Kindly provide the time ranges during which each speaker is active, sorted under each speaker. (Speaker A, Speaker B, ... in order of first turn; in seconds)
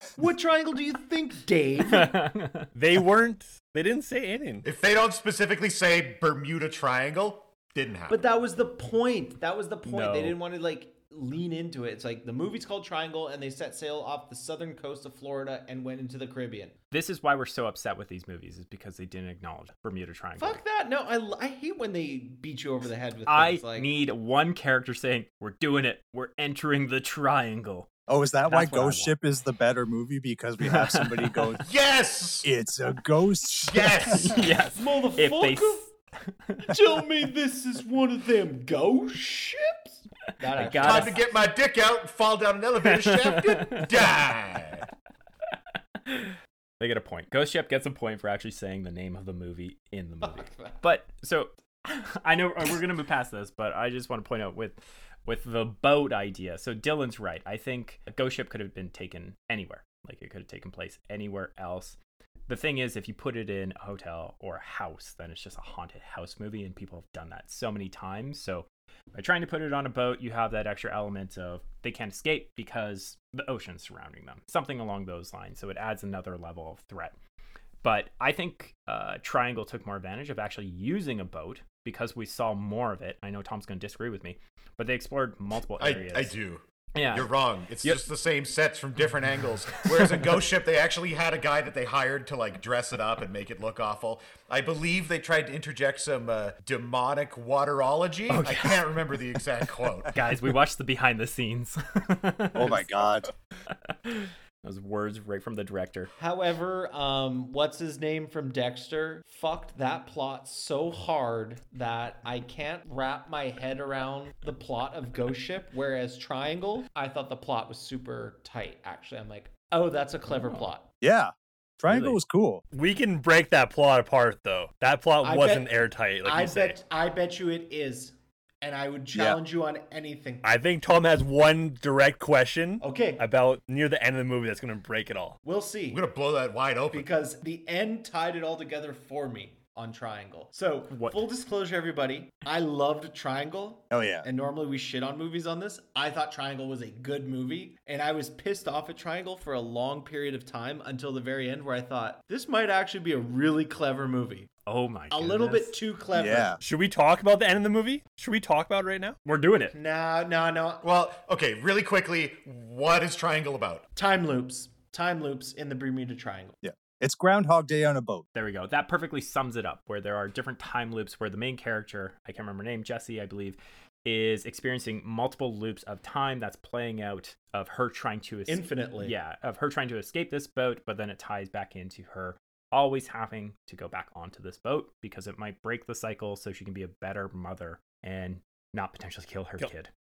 Speaker A: 0.2-2.2, 8.1-16.8, 20.4-23.9, 34.8-35.9, 36.7-41.2, 50.2-50.9, 106.2-120.8, 125.2-130.5, 132.8-133.2, 135.4-136.0, 136.9-154.5, 155.1-156.6, 159.7-160.8, 163.9-166.6, 178.5-179.2
Speaker B: 1.8-2.7, 9.9-10.4, 16.9-20.6, 23.3-27.9, 28.5-29.1, 30.6-31.5, 34.1-36.8, 40.5-41.2, 42.8-43.9, 46.1-62.0, 62.5-77.1, 77.8-86.3, 87.0-88.0, 89.8-90.3, 98.3-98.8, 100.1-102.9, 103.7-106.1, 120.3-120.6, 121.9-122.2, 140.9-141.2, 154.7-155.8, 159.2-159.8, 168.3-189.9
Speaker C: 2.8-4.7, 122.7-126.8, 130.4-135.4, 156.6-159.2
Speaker D: 4.7-8.2, 31.6-32.5, 33.7-34.5, 40.8-44.9, 85.8-100.3, 135.9-137.1, 160.8-163.9
Speaker E: 28.1-31.6, 32.4-34.4, 102.5-103.3, 121.0-122.6, 129.1-129.4, 143.9-144.3, 156.1-156.6, 166.6-168.3